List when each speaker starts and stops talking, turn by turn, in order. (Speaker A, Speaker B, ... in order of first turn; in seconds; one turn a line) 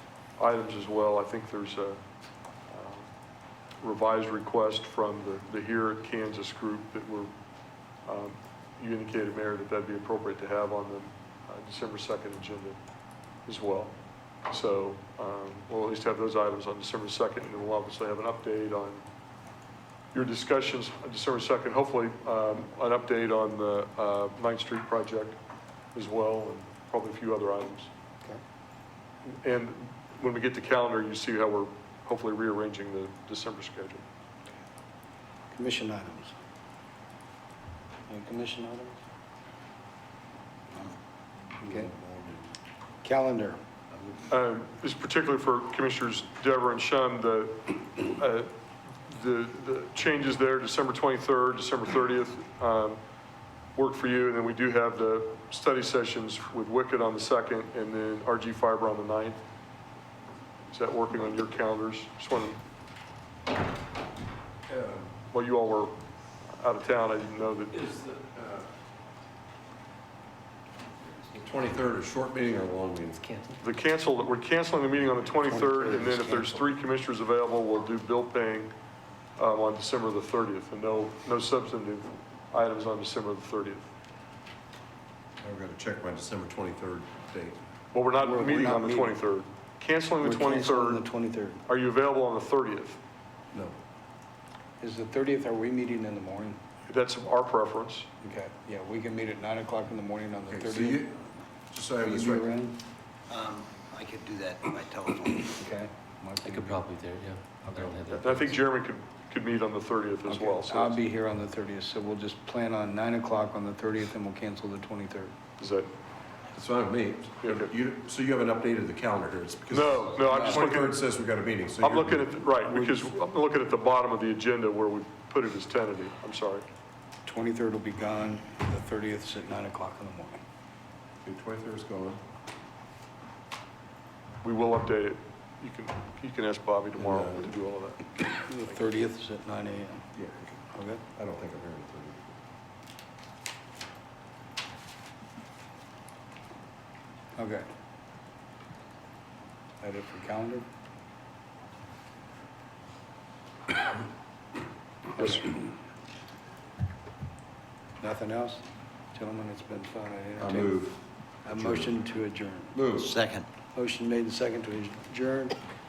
Speaker A: 0.4-2.0
Speaker A: 2.7-3.1
Speaker A: 3.8-7.3
Speaker A: 8.0-12.8
Speaker A: 13.4-13.9
Speaker A: 14.5-19.0
Speaker A: 20.1-25.4
Speaker A: 25.9-27.9
Speaker A: 29.2-34.0
Speaker B: 35.5-36.4
Speaker B: 38.1-39.0
Speaker C: 41.6-42.5
Speaker B: 41.6-41.9
Speaker B: 43.0-43.6
Speaker A: 44.3-53.0
Speaker A: 53.7-59.4
Speaker A: 60.7-62.6
Speaker C: 64.7-65.1
Speaker A: 65.3-67.9
Speaker C: 67.8-68.7
Speaker C: 71.3-73.6
Speaker A: 73.6-78.7
Speaker B: 75.4-76.6
Speaker A: 79.4-83.9
Speaker C: 85.4-87.6
Speaker A: 87.9-91.0
Speaker B: 88.2-89.2
Speaker B: 90.2-91.6
Speaker A: 91.7-93.0
Speaker B: 94.8-96.6
Speaker A: 96.9-98.1
Speaker B: 98.2-101.2
Speaker C: 100.5-102.5
Speaker B: 102.0-102.8
Speaker D: 103.3-105.6
Speaker B: 105.6-106.9
Speaker E: 106.4-108.5
Speaker B: 107.7-108.0
Speaker A: 108.1-111.0
Speaker B: 110.3-115.3
Speaker A: 115.6-115.9
Speaker C: 116.5-122.4
Speaker A: 117.4-117.7
Speaker A: 119.7-121.0
Speaker B: 120.3-120.7
Speaker A: 121.8-126.7
Speaker B: 122.7-123.0
Speaker B: 127.2-130.4
Speaker C: 131.2-132.2
Speaker A: 134.4-138.9
Speaker C: 137.0-137.5
Speaker B: 138.4-140.1
Speaker C: 140.1-140.6
Speaker B: 140.7-141.0
Speaker C: 141.2-142.3
Speaker B: 147.3-147.7
Speaker B: 149.8-150.7
Speaker B: 155.1-155.7
Speaker B: 158.0-160.9
Speaker C: 160.4-161.9
Speaker B: 161.4-162.8
Speaker C: 162.7-163.1
Speaker D: 162.9-163.5
Speaker B: 163.7-165.6